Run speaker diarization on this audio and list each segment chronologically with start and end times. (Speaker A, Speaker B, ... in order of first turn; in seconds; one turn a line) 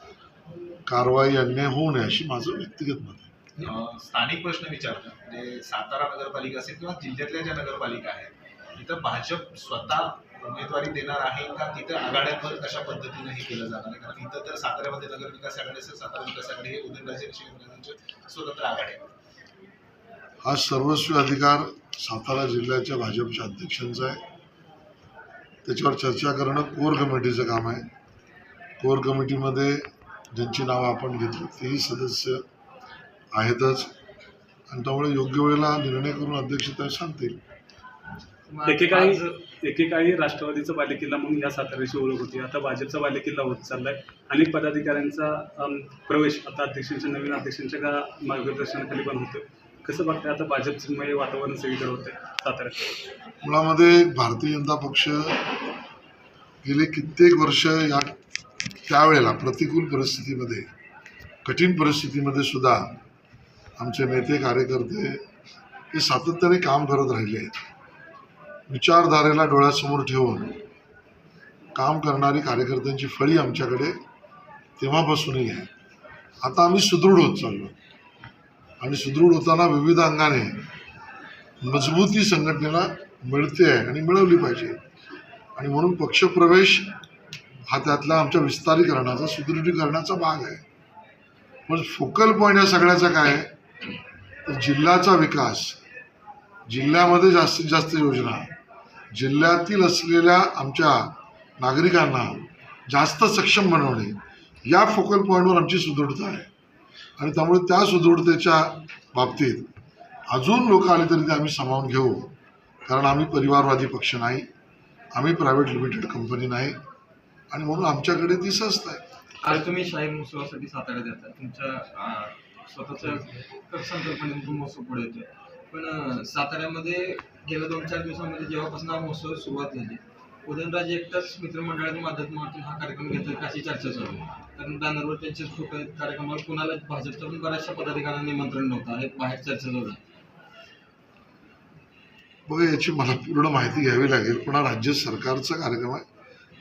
Speaker A: 0.9-3.3
Speaker B: 3.6-19.1
Speaker A: 20.4-24.2
Speaker A: 25.6-27.9
Speaker A: 28.8-32.4
Speaker A: 33.3-33.9
Speaker A: 34.7-37.4
Speaker C: 38.5-39.4
Speaker D: 38.6-52.8
Speaker A: 53.4-55.4
Speaker A: 56.6-58.2
Speaker A: 58.8-60.6
Speaker A: 61.4-63.0
Speaker A: 63.8-65.2
Speaker A: 65.9-67.5
Speaker A: 68.7-70.6
Speaker A: 71.7-74.0
Speaker A: 74.8-75.7
Speaker A: 76.4-77.7
Speaker A: 78.8-80.6
Speaker A: 81.6-84.8
Speaker A: 85.6-86.9
Speaker A: 87.7-90.6
Speaker A: 91.7-93.5
Speaker A: 94.5-95.8
Speaker A: 96.7-98.5
Speaker A: 99.1-106.5
Speaker A: 107.2-109.7
Speaker A: 110.3-112.3
Speaker A: 112.8-114.5
Speaker A: 115.1-116.8
Speaker A: 117.5-119.0
Speaker C: 119.4-140.0
Speaker A: 142.5-146.0